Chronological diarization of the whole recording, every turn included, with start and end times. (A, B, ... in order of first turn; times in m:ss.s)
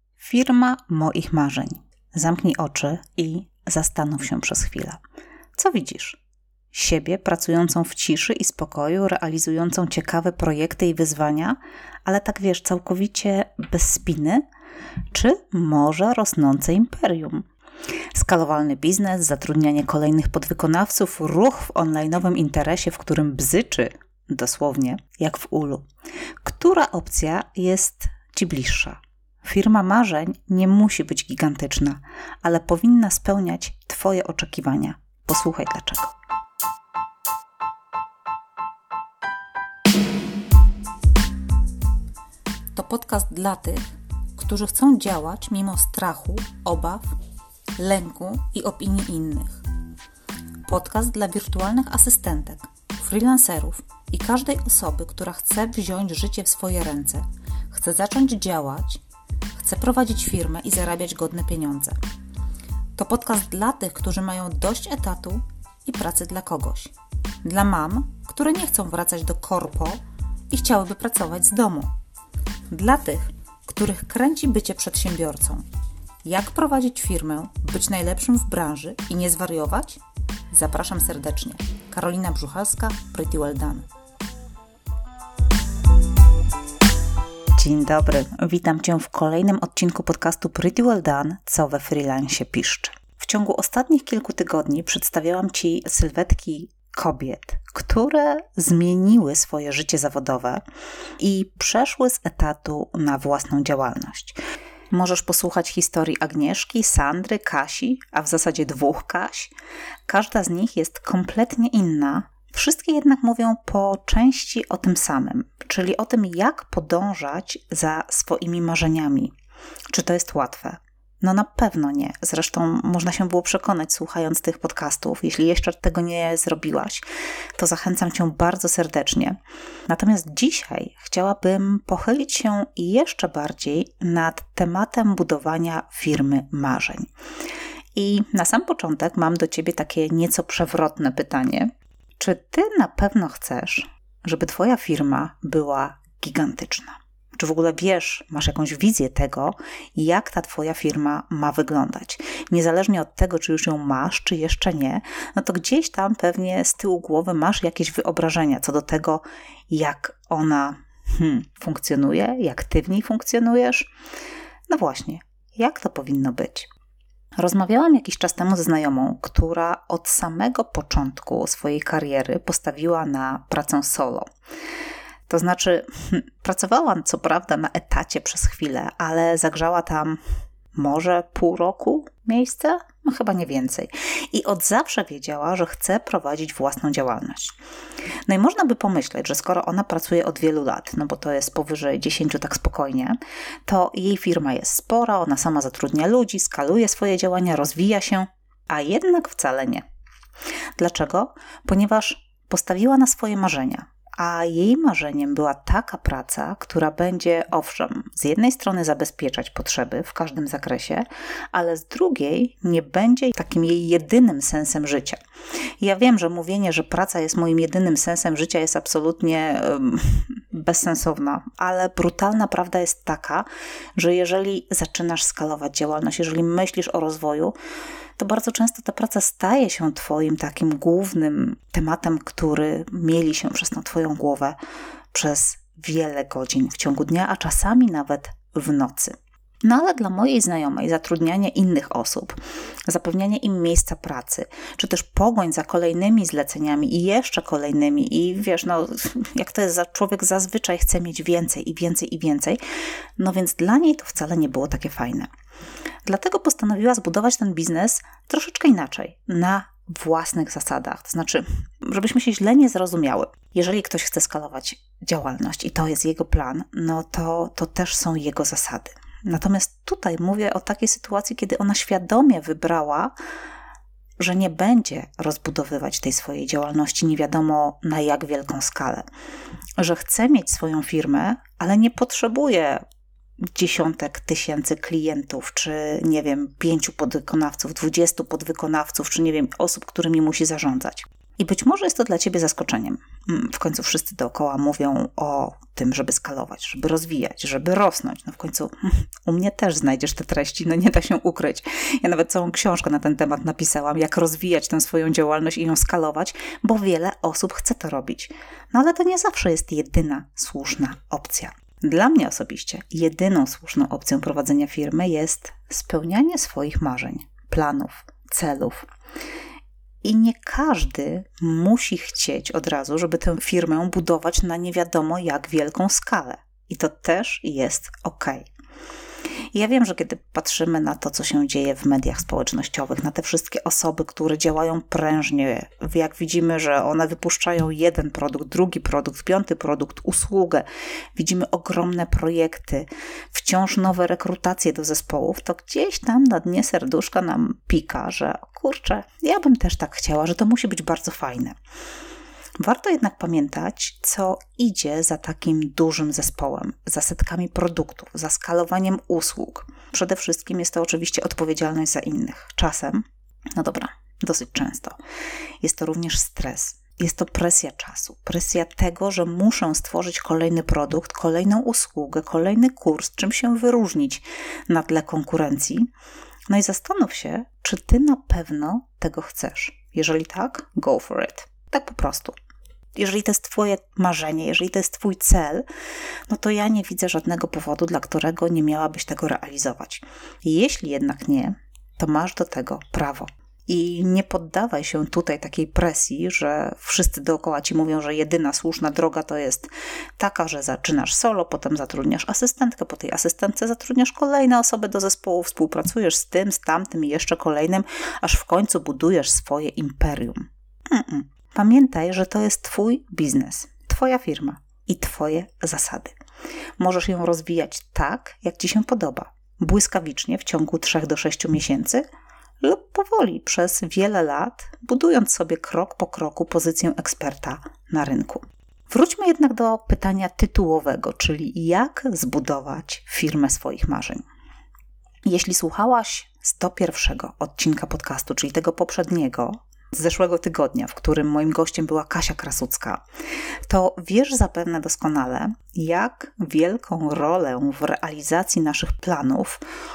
0:00.2-0:05.0 A
0:05.6-0:06.2 A
0:06.7-0:14.4 A
0:15.1-0:17.4 A
0:18.2-0:25.8 A
0:26.4-0:36.1 A
0:42.7-0:47.2 A
0:47.8-0:49.6 A
0:50.7-0:59.0 A
0:59.5-1:02.0 A
1:03.0-1:11.9 A
1:12.7-1:15.6 A
1:16.2-1:23.9 A
1:27.6-1:40.6 A
1:41.2-1:44.4 A
1:44.9-1:49.5 A
1:50.1-1:59.3 A
1:59.9-2:07.0 A
2:07.6-2:17.1 A
2:18.0-2:43.9 A
2:44.7-2:46.7 A
2:47.4-2:54.3 A
2:55.3-3:00.2 A
3:00.7-3:07.6 A
3:08.3-3:19.8 A
3:20.8-3:35.2 A
3:35.8-3:47.6 A
3:48.2-3:54.6 A
3:55.1-4:02.4 A
4:02.9-4:12.6 A
4:13.2-4:15.3 A
4:16.1-4:33.2 A
4:34.2-4:39.1 A
4:39.8-4:42.8 A
4:43.4-5:18.9 A
5:20.0-5:28.5 A
5:29.5-5:51.6 A
5:52.6-6:03.0 A
6:03.6-6:05.0 A
6:05.6-6:15.9 A
6:16.5-6:22.4 A
6:23.0-6:25.6 A
6:26.3-6:56.1 A
6:56.8-7:02.0 A
7:02.6-7:14.2 A
7:15.2-7:23.0 A
7:23.7-7:29.6 A